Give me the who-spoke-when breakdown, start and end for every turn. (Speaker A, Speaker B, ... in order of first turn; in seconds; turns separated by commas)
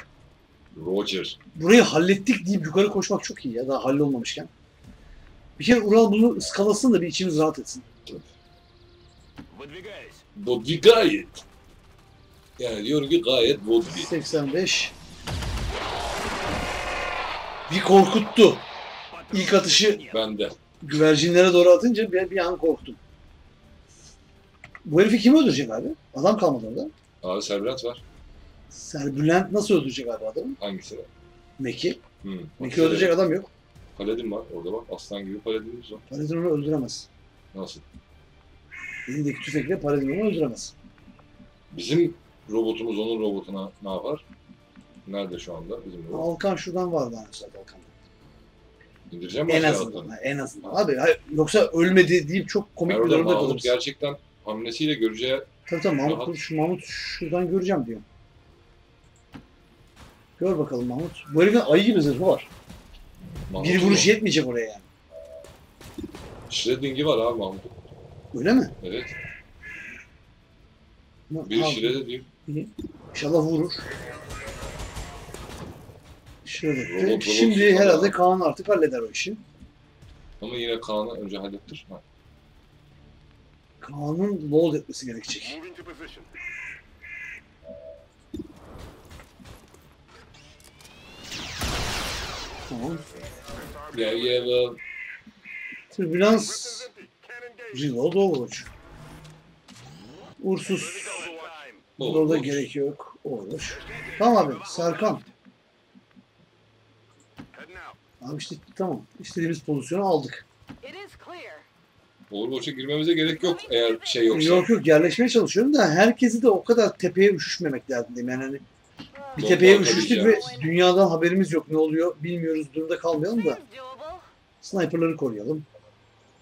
Speaker A: 0.7-1.4, Speaker B: 1.6-4.5, Speaker B: 5.6-7.8, Speaker A: 10.3-11.4, Speaker A: 12.6-14.1, Speaker B: 13.9-14.9, Speaker B: 17.7-18.6, Speaker B: 19.3-20.1, Speaker A: 20.1-20.6, Speaker B: 20.8-23.0, Speaker B: 24.8-26.9, Speaker A: 27.2-28.0, Speaker B: 28.7-30.6, Speaker A: 30.6-31.1, Speaker B: 31.6-32.0, Speaker A: 32.2-33.2, Speaker B: 32.6-33.5, Speaker A: 34.0-36.0, Speaker B: 36.1-37.1, Speaker A: 37.5-37.8, Speaker B: 39.1-40.7, Speaker A: 41.7-44.2, Speaker A: 45.0-46.3, Speaker B: 46.1-47.9, Speaker A: 49.1-50.1, Speaker B: 49.5-53.7, Speaker A: 52.9-55.5, Speaker B: 55.7-58.0, Speaker A: 56.0-56.3, Speaker B: 60.4-62.5, Speaker A: 63.5-64.1, Speaker B: 63.6-64.8, Speaker A: 66.5-67.7, Speaker B: 68.3-68.7, Speaker A: 68.8-69.1, Speaker B: 71.3-73.8, Speaker A: 71.5-72.2, Speaker B: 76.4-79.4, Speaker A: 76.8-78.2, Speaker A: 80.4-82.0, Speaker B: 83.8-85.6, Speaker B: 92.7-93.0, Speaker A: 93.9-94.8, Speaker B: 95.9-96.9, Speaker B: 97.7-98.7, Speaker B: 100.4-101.3, Speaker A: 102.0-102.7, Speaker B: 102.0-105.2, Speaker B: 108.2-110.4, Speaker A: 112.3-114.7, Speaker B: 114.3-118.6, Speaker A: 119.4-120.5, Speaker B: 119.4-123.6, Speaker B: 124.6-125.7